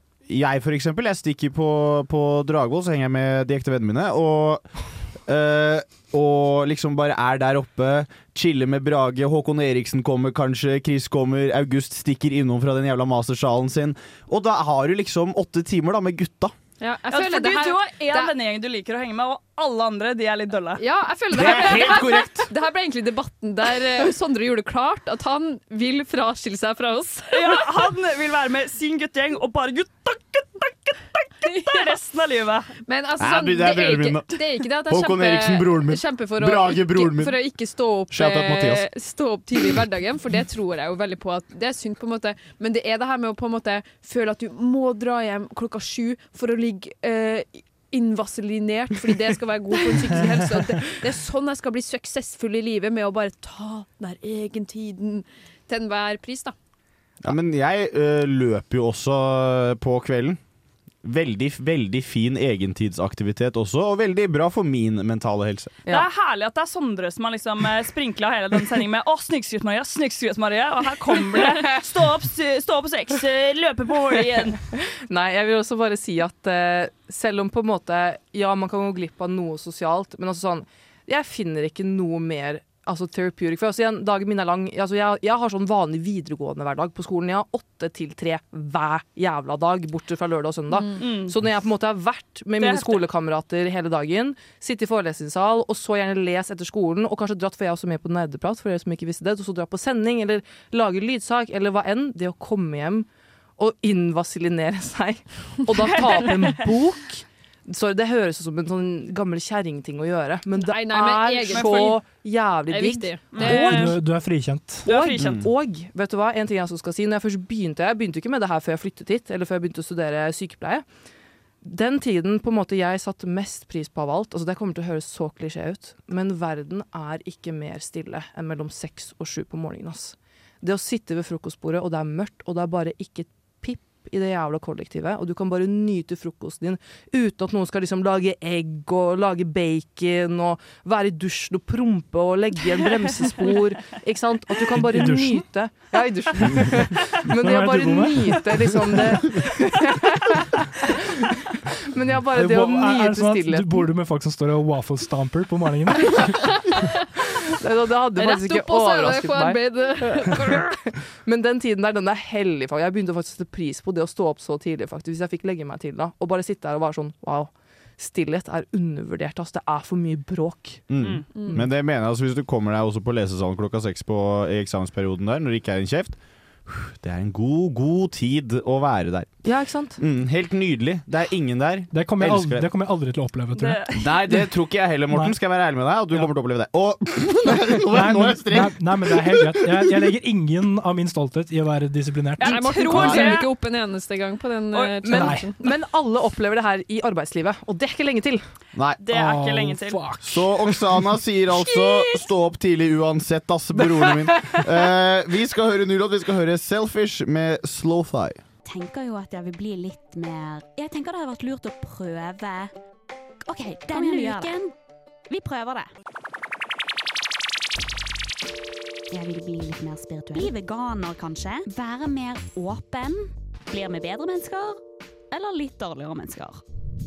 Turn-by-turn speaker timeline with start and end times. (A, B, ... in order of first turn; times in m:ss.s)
0:00.2-0:16.5 A
0:16.8-0:18.3 B
0:17.1-0:20.8 C
0:20.8-0:27.7 B
0:21.3-0:22.5 A
0:21.4-0:22.0 C
0:27.3-0:32.7 C
0:31.5-0:32.0 B
0:32.9-0:56.6 B
0:33.2-0:37.4 A
0:38.1-0:38.9 A
0:57.2-1:00.4 A
1:01.0-1:05.7 A
1:05.9-1:14.6 C
1:11.2-1:11.8 D
1:14.9-1:43.1 D
1:31.0-1:31.3 C
1:32.6-1:33.0 C
1:43.6-1:54.0 D
1:45.9-1:46.6 C
1:50.6-1:53.6 B
1:51.5-1:52.0 C
1:53.3-1:53.9 C
1:53.4-1:54.9 E
1:54.8-1:55.5 C
1:54.8-2:00.9 D
1:55.2-1:55.5 A
2:01.6-2:30.0 D
2:24.7-2:25.5 E
2:27.3-2:29.4 E
2:31.9-2:33.9 D
2:32.3-2:36.6 E
2:37.6-2:51.6 D
2:38.2-2:40.7 B
2:50.9-3:02.7 A
2:59.4-3:00.0 D
3:01.9-3:04.4 E
3:03.6-3:04.1 C
3:04.0-3:09.1 A
3:05.1-3:05.4 E
3:07.9-3:13.4 E
3:12.4-3:13.5 C
3:12.4-3:15.6 B
3:15.0-3:18.5 D
3:15.1-3:15.5 E
3:18.7-3:19.1 A
3:19.0-3:20.0 C
3:19.1-3:21.1 E
3:20.2-3:28.4 A
3:24.2-3:24.6 D
3:28.6-3:32.7 F
3:33.4-3:34.7 F
3:35.3-3:35.9 F
3:39.1-3:46.6 F